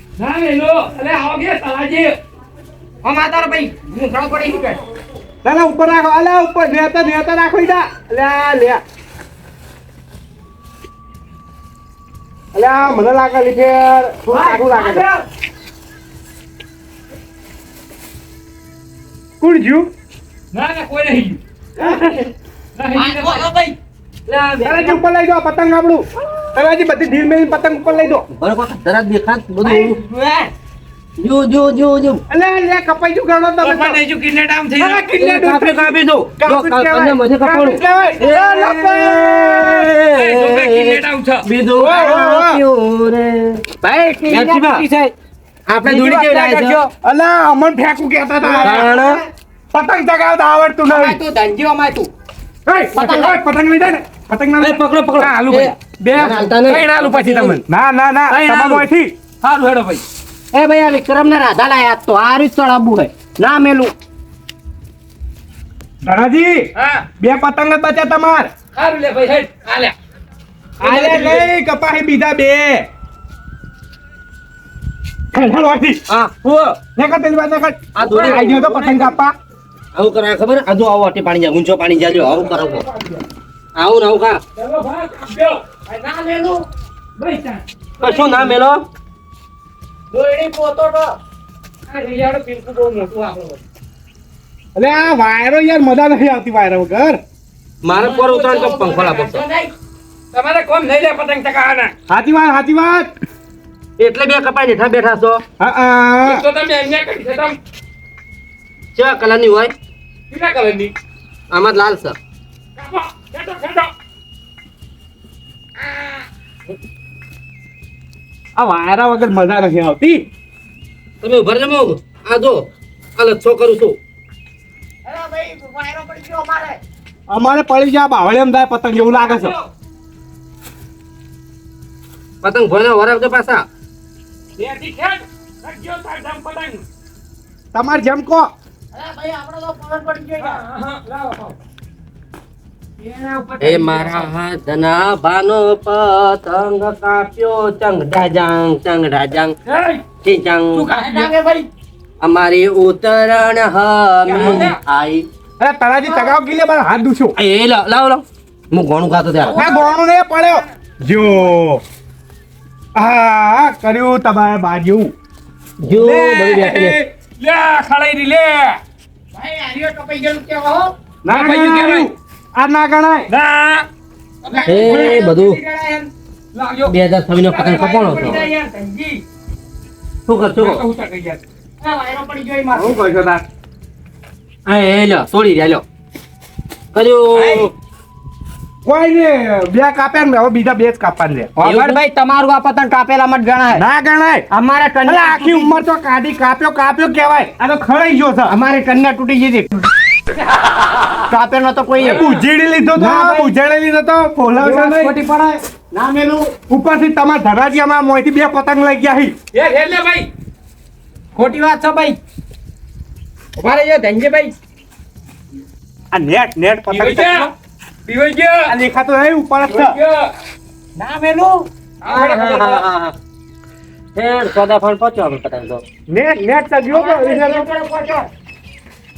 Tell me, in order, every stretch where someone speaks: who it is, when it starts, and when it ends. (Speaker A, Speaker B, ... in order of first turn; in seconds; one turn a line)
Speaker A: 0.2-2.2
Speaker B: 3.0-4.8
Speaker C: 5.4-8.8
Speaker C: 12.5-15.1
Speaker B: 14.3-15.2
Speaker C: 19.4-19.9
Speaker A: 20.5-21.4
Speaker C: 21.8-22.1
Speaker A: 22.8-23.5
Speaker B: 22.9-23.8
Speaker B: 24.3-25.0
Speaker C: 24.6-28.3
Speaker D: 28.3-30.0
Speaker B: 29.6-30.5
Speaker D: 31.2-32.2
Speaker C: 32.3-34.0
Speaker B: 33.6-35.1
Speaker C: 34.8-39.9
Speaker D: 35.1-43.7
Speaker A: 40.1-41.5
Speaker C: 41.8-42.6
Speaker B: 43.8-45.1
Speaker D: 44.3-44.9
Speaker D: 45.7-46.8
Speaker A: 45.9-46.8
Speaker B: 46.0-46.9
Speaker C: 47.0-48.9
Speaker B: 48.4-49.2
Speaker D: 48.6-49.2
Speaker C: 49.7-51.2
Speaker B: 50.9-52.1
Speaker C: 52.7-54.8
Speaker B: 53.0-53.4
Speaker D: 54.6-57.6
Speaker A: 55.2-57.6
Speaker C: 57.7-59.1
Speaker A: 58.3-58.9
Speaker A: 59.4-60.0
Speaker B: 60.5-63.9
Speaker C: 66.0-68.5
Speaker A: 66.8-67.1
Speaker A: 68.8-69.9
Speaker C: 70.8-72.9
Speaker D: 70.9-71.3
Speaker C: 75.3-76.0
Speaker D: 76.1-76.8
Speaker C: 76.9-79.3
Speaker D: 78.0-78.8
Speaker A: 78.0-78.4
Speaker B: 78.4-79.1
Speaker D: 80.0-82.8
Speaker A: 82.1-83.2
Speaker D: 83.8-84.4
Speaker A: 84.6-85.6
Speaker B: 85.9-86.7
Speaker A: 87.2-88.5
Speaker D: 88.0-88.8
Speaker B: 90.1-91.2
Speaker A: 91.9-93.6
Speaker C: 94.8-97.2
Speaker D: 97.8-99.4
Speaker B: 98.0-99.7
Speaker A: 100.3-101.9
Speaker C: 102.1-103.1
Speaker D: 104.0-105.4
Speaker C: 105.6-106.4
Speaker A: 106.2-107.6
Speaker D: 109.0-109.7
Speaker A: 110.3-110.9
Speaker D: 111.5-112.2
Speaker A: 112.8-113.9
Speaker A: 115.8-116.2
Speaker C: 118.6-120.3
Speaker D: 121.2-124.0
Speaker B: 125.0-126.8
Speaker C: 127.3-129.5
Speaker B: 129.2-129.6
Speaker D: 132.4-133.7
Speaker A: 134.6-136.8
Speaker C: 137.7-138.5
Speaker B: 138.9-140.6
Speaker A: 140.4-141.6
Speaker A: 143.0-144.3
Speaker D: 143.6-149.6
Speaker A: 149.7-150.1
Speaker D: 150.2-150.9
Speaker A: 150.7-151.3
Speaker B: 150.9-151.7
Speaker D: 152.2-155.3
Speaker A: 154.3-154.8
Speaker C: 155.6-157.3
Speaker B: 156.0-156.3
Speaker D: 157.4-159.7
Speaker A: 159.5-159.8
Speaker C: 159.6-161.8
Speaker C: 162.9-165.1
Speaker D: 165.8-167.0
Speaker C: 166.0-166.3
Speaker A: 166.1-168.8
Speaker B: 169.3-170.9
Speaker C: 171.2-173.3
Speaker A: 171.3-172.1
Speaker A: 173.3-173.9
Speaker A: 174.5-175.2
Speaker B: 174.5-176.1
Speaker D: 174.7-175.6
Speaker A: 176.5-176.9
Speaker D: 176.9-178.4
Speaker A: 177.5-178.5
Speaker B: 177.6-179.2
Speaker D: 180.3-180.8
Speaker A: 180.6-181.4
Speaker B: 181.8-183.0
Speaker C: 182.7-183.4
Speaker D: 184.7-185.8
Speaker D: 186.9-187.7
Speaker B: 187.4-187.7
Speaker C: 188.8-191.5
Speaker B: 191.6-193.8
Speaker D: 191.6-192.0
Speaker C: 193.7-194.5
Speaker B: 194.5-195.8
Speaker C: 195.1-198.6
Speaker B: 198.5-199.7
Speaker B: 201.3-202.2
Speaker A: 202.0-202.5
Speaker C: 202.1-205.2
Speaker B: 203.0-203.5
Speaker B: 204.6-206.5
Speaker C: 206.7-209.3
Speaker A: 209.5-210.3
Speaker B: 211.4-212.2
Speaker B: 213.6-214.5
Speaker C: 216.1-217.5
Speaker A: 216.9-217.5
Speaker A: 218.1-218.7
Speaker C: 218.7-220.0
Speaker A: 219.6-220.3
Speaker B: 221.0-221.7
Speaker A: 222.0-222.8
Speaker D: 222.1-223.2
Speaker D: 224.2-225.8
Speaker C: 226.1-227.7
Speaker B: 226.9-228.3